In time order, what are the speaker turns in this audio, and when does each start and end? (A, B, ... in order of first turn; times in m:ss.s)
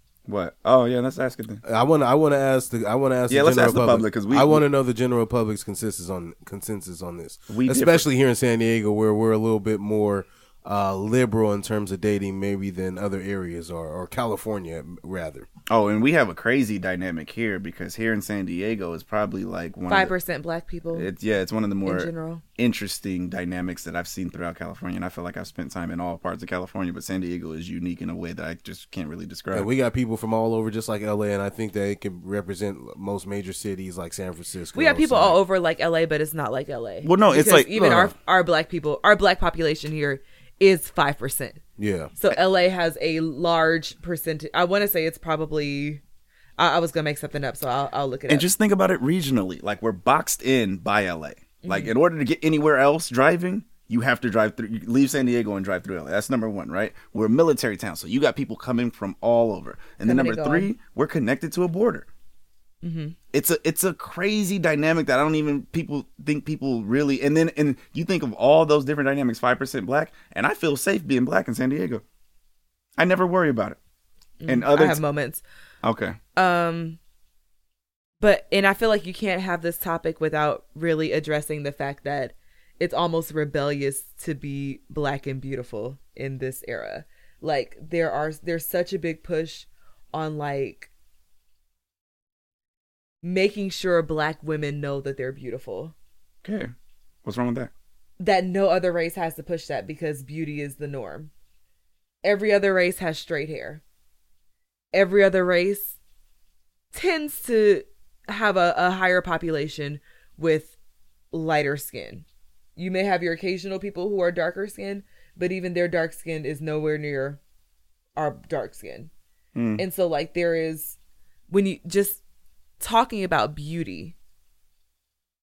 0:00.3-0:01.6 A
0:01.6-0:15.5 B
0:03.3-0:04.6 A
0:07.5-0:08.1 A
0:15.7-0:20.1 A
0:19.9-0:21.1 C
0:20.9-0:29.7 A
0:21.8-0:22.4 C
0:29.5-0:35.4 B
0:34.7-0:41.6 C
0:37.0-0:38.1 A
0:41.8-0:42.1 B
0:42.2-0:46.0 C
0:46.6-0:48.5 C
0:48.3-1:02.1 A
0:51.6-0:51.9 C
1:00.0-1:00.7 C
1:02.8-1:03.2 C
1:03.3-1:12.0 A
1:13.0-1:13.8 A
1:14.4-1:15.4 C
1:14.5-1:15.0 A
1:15.8-1:16.2 A
1:16.4-1:17.0 C
1:18.2-1:30.9 C
1:33.2-1:35.9 C
1:36.4-1:36.7 A
1:37.2-1:37.7 A
1:38.2-1:41.3 C
1:42.2-1:43.8 C
1:44.9-1:45.9 C
1:46.9-1:50.7 C
1:51.3-1:52.2 C
1:52.8-1:57.4 C
1:58.2-1:59.1 C
1:59.6-1:59.8 A
1:59.8-2:01.0 C
2:01.5-2:02.2 C
2:02.8-2:04.1 C